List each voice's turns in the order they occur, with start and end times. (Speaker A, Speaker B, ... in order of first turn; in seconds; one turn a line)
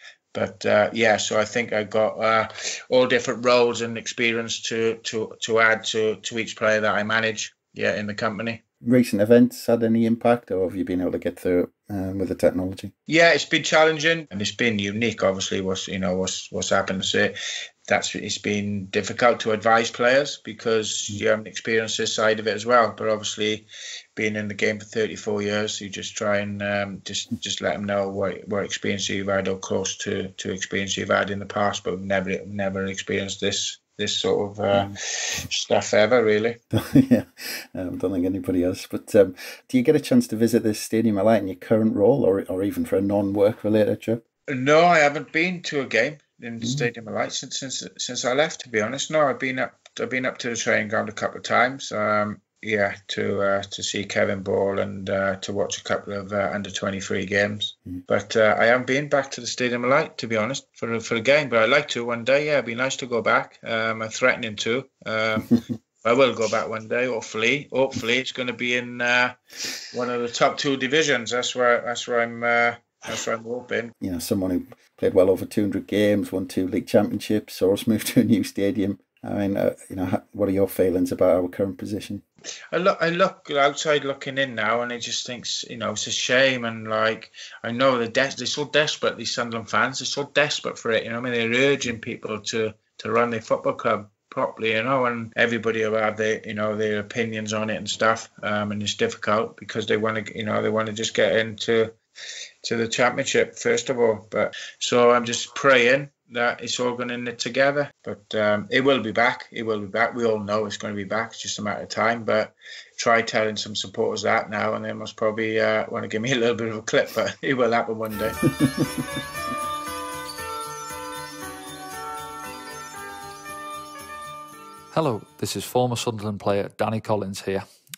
Speaker A: 0.3-8.6
Speaker B: 8.8-12.9
Speaker A: 13.1-17.3
Speaker A: 17.9-36.6
Speaker B: 36.7-44.2
Speaker A: 44.5-69.4
Speaker A: 69.9-73.9
Speaker B: 74.0-82.2
Speaker A: 82.7-101.9
Speaker A: 102.6-118.4
Speaker B: 118.5-119.2
Speaker C: 124.9-127.6